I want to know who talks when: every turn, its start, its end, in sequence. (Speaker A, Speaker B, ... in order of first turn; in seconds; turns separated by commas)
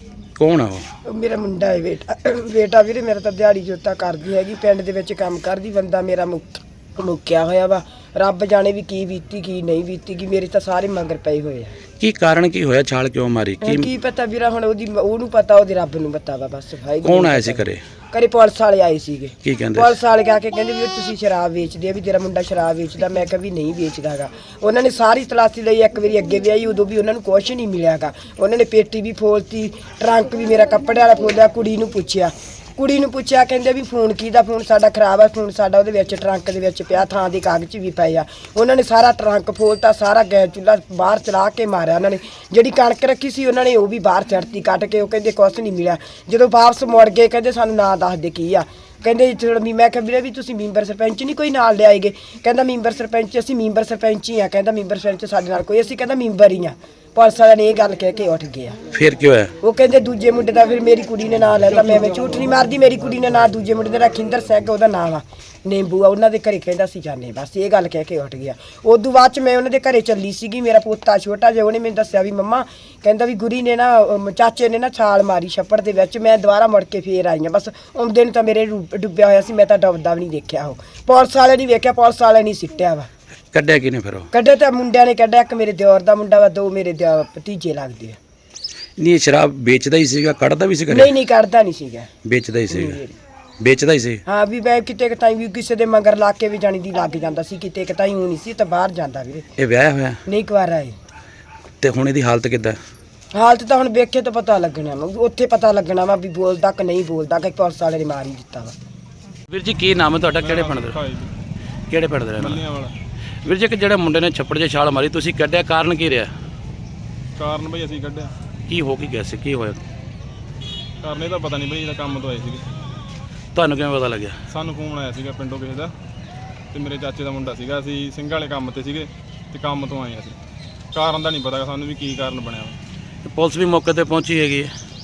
Speaker A: 0.4-0.8, Speaker B: 1.1-11.8, Speaker A: 12.0-13.9, Speaker B: 13.6-58.8, Speaker A: 17.0-17.8, Speaker A: 19.4-19.9, Speaker A: 58.9-59.5, Speaker B: 59.6-83.1, Speaker A: 83.5-84.3, Speaker B: 84.3-88.2, Speaker A: 89.0-91.1, Speaker B: 90.9-92.1, Speaker A: 92.2-93.0, Speaker B: 92.7-93.1, Speaker A: 93.6-94.2, Speaker B: 94.2-99.5, Speaker A: 99.6-100.2, Speaker B: 100.2-100.9, Speaker A: 101.8-102.8, Speaker B: 103.3-108.7, Speaker A: 109.5-111.0, Speaker C: 110.4-111.3, Speaker A: 111.9-112.6, Speaker C: 112.4-112.9, Speaker A: 113.4-116.3, Speaker C: 117.4-118.3, Speaker A: 118.7-119.8, Speaker C: 121.0-122.7, Speaker A: 123.5-124.3, Speaker C: 124.5-125.9, Speaker C: 126.7-130.4, Speaker C: 130.9-132.8, Speaker A: 133.2-134.7